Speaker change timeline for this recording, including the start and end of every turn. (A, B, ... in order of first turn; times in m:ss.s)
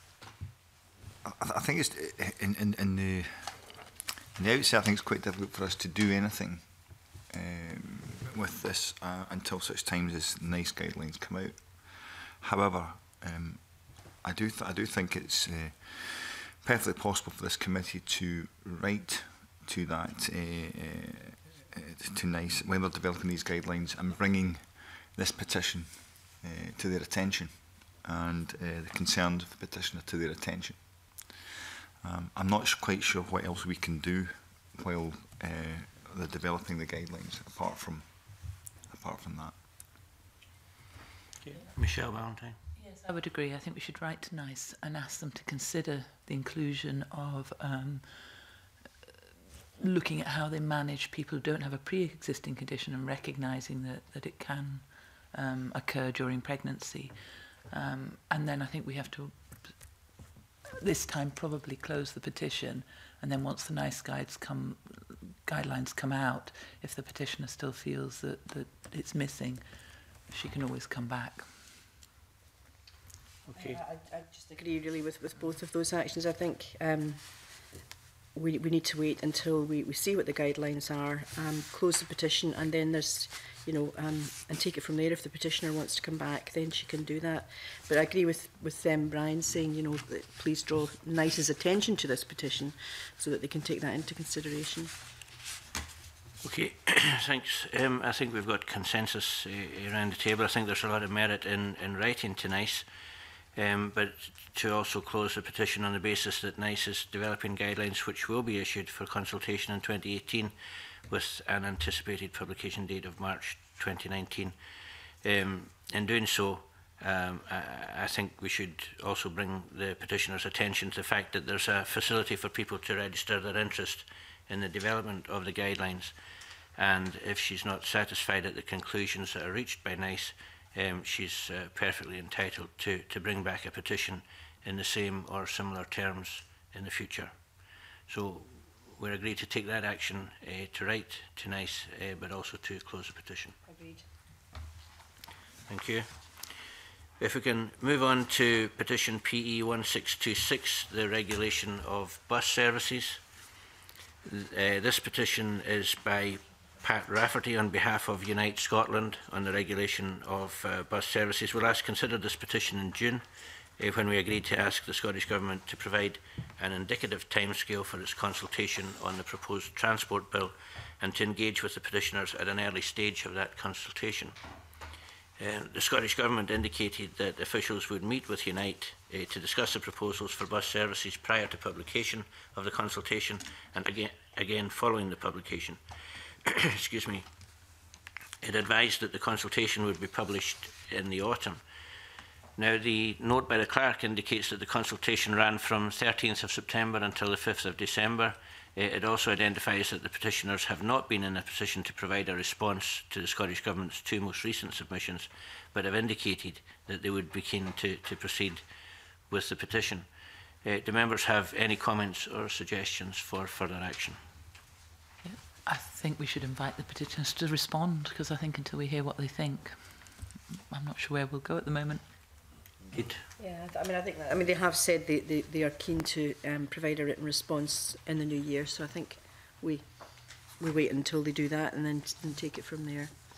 0:01.2-0:31.4 A
0:32.0-0:39.6 A
0:41.4-0:42.6 B
0:42.8-0:48.6 C
0:49.8-1:00.1 C
1:00.7-1:09.6 C
1:10.2-1:11.5 C
1:13.5-1:13.8 B
1:13.6-1:17.8 D
1:18.3-1:34.9 D
1:36.4-1:42.9 B
1:43.6-1:50.5 B
1:51.1-1:54.6 B
1:55.2-2:06.2 B
2:06.8-2:17.3 B
2:18.1-2:23.6 B
2:23.7-2:24.0 D
2:25.7-2:26.1 B
2:27.2-2:33.2 B
2:34.2-2:43.2 B
2:43.8-2:54.4 B
2:55.4-3:05.8 B
3:06.4-3:07.3 B
3:08.4-3:11.6 B
3:12.6-3:28.6 B
3:29.3-3:30.1 B
3:30.6-3:34.2 B
3:35.2-3:42.3 C
3:42.9-3:43.2 B
3:43.4-3:53.1 D